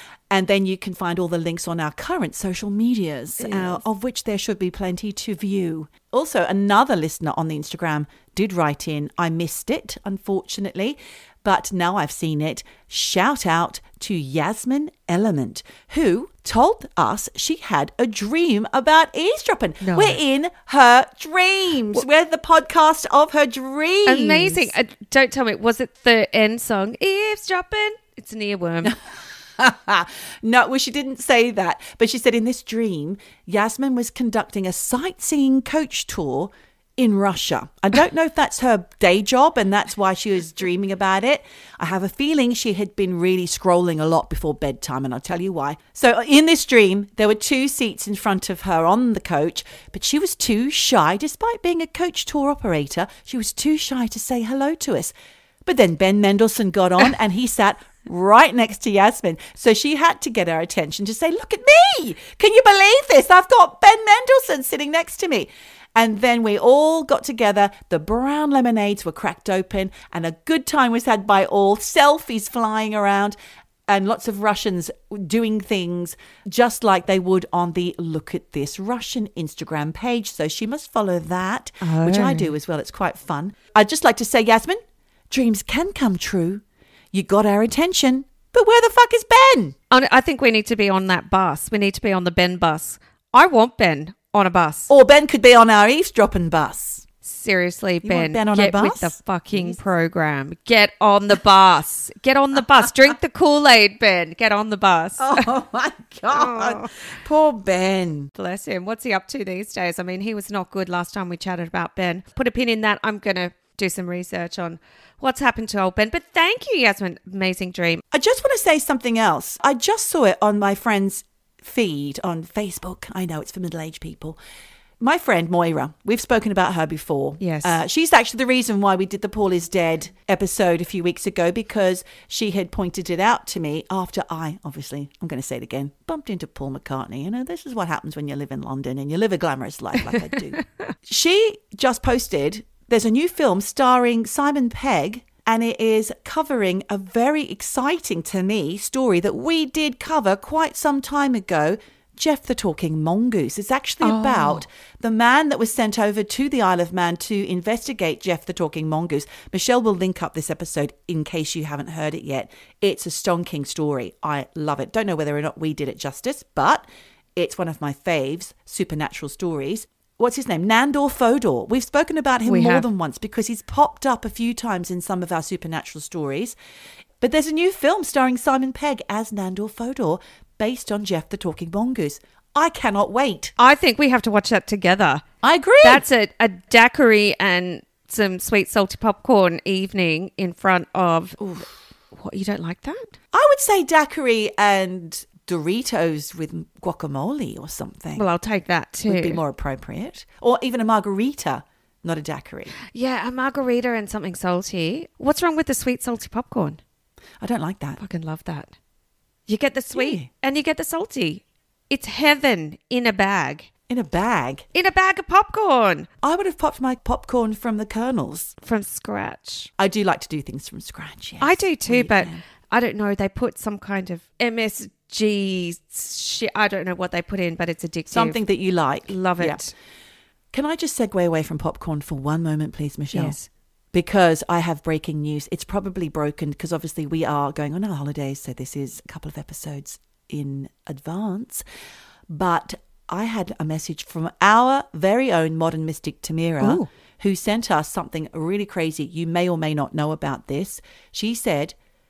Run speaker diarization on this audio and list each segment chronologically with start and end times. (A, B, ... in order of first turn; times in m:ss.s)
0:00.3-0:24.7 A
0:03.4-0:03.8 B
0:19.8-0:20.2 B
0:24.0-0:29.0 B
0:29.6-0:55.1 A
0:55.6-1:13.4 A
1:13.9-1:29.8 A
1:21.8-1:22.5 B
1:29.9-1:34.9 B
1:34.9-1:37.0 A
1:37.2-1:45.5 B
1:38.0-1:39.8 A
1:45.2-1:48.3 A
1:46.3-1:46.9 B
1:48.3-1:58.0 B
1:58.1-2:04.4 A
2:05.0-2:46.8 A
2:07.4-2:07.8 B
2:20.6-2:20.9 B
2:34.0-2:34.6 B
2:47.4-2:56.6 A
2:52.4-2:52.9 B
2:57.2-3:03.5 A
3:03.6-3:05.2 B
3:05.4-3:06.0 A
3:05.8-3:11.4 B
3:11.4-3:11.7 A
3:12.1-3:13.1 B
3:13.3-3:18.2 A
3:18.2-3:19.4 B
3:19.1-3:22.7 A
3:22.9-3:26.8 B
3:27.4-3:28.0 A
3:28.0-3:28.7 B
3:29.5-3:33.7 B
3:29.9-3:30.3 A
3:33.9-3:34.7 A
3:34.7-3:36.1 B
3:36.2-3:38.5 A
3:38.6-3:39.7 B
3:39.8-3:42.4 A
3:41.4-3:48.4 B
3:48.1-3:49.6 A
3:49.1-3:49.7 B
3:50.5-3:53.4 A
3:53.1-3:53.5 B
3:53.9-4:01.6 A
4:02.3-4:11.8 A
4:06.6-4:06.9 B